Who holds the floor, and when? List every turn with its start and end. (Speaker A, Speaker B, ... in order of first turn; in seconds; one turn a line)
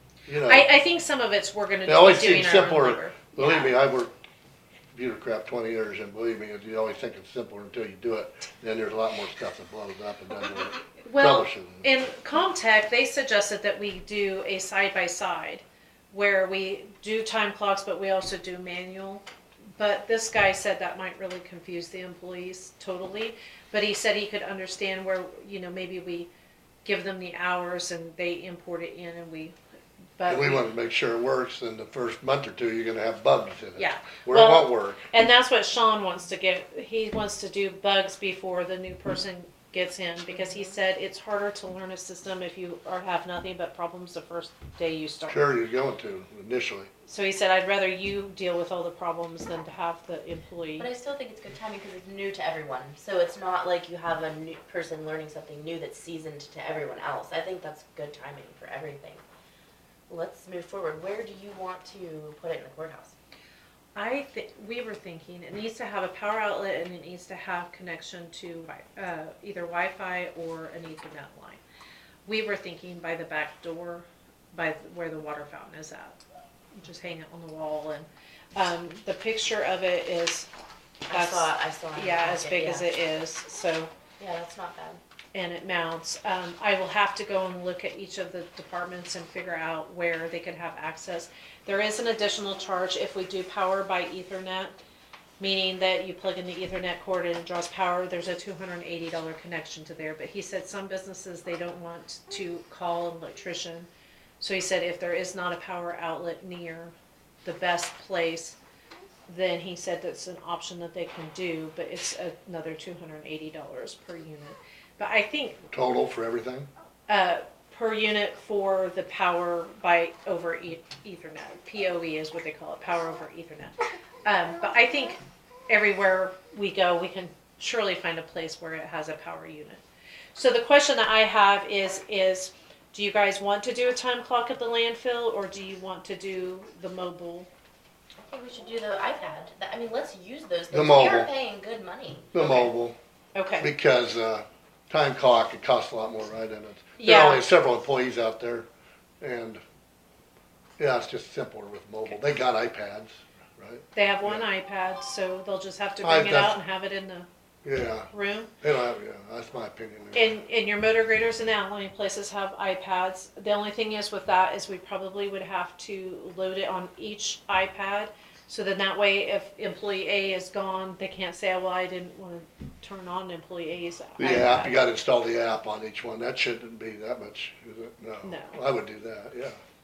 Speaker A: 0.3-0.7
Speaker B: 0.4-3.7
Speaker A: 1.9-4.1
Speaker A: 4.9-11.8
Speaker B: 11.0-19.2
Speaker B: 19.8-26.3
Speaker B: 26.8-29.5
Speaker B: 30.2-30.6
Speaker A: 30.3-35.1
Speaker B: 33.8-45.4
Speaker C: 40.3-40.8
Speaker A: 45.3-46.9
Speaker B: 47.1-50.9
Speaker C: 50.8-59.2
Speaker C: 60.1-63.1
Speaker B: 63.9-71.6
Speaker B: 72.2-76.2
Speaker B: 76.7-80.5
Speaker C: 81.1-82.9
Speaker B: 81.1-83.9
Speaker C: 84.2-85.0
Speaker B: 85.3-94.7
Speaker B: 95.4-103.9
Speaker B: 104.4-106.9
Speaker B: 107.4-108.6
Speaker B: 109.3-115.6
Speaker A: 115.7-116.7
Speaker B: 117.1-129.8
Speaker B: 130.3-137.5
Speaker C: 138.2-142.7
Speaker A: 140.7-141.3
Speaker A: 142.3-142.9
Speaker B: 143.3-143.7
Speaker A: 143.6-148.7
Speaker B: 147.0-147.4
Speaker A: 149.2-149.6
Speaker A: 150.8-154.4
Speaker B: 153.9-157.3
Speaker A: 156.0-156.5
Speaker A: 157.6-158.1
Speaker B: 158.1-158.5
Speaker A: 158.6-160.3
Speaker B: 160.1-174.8
Speaker A: 174.2-179.6
Speaker B: 178.2-178.6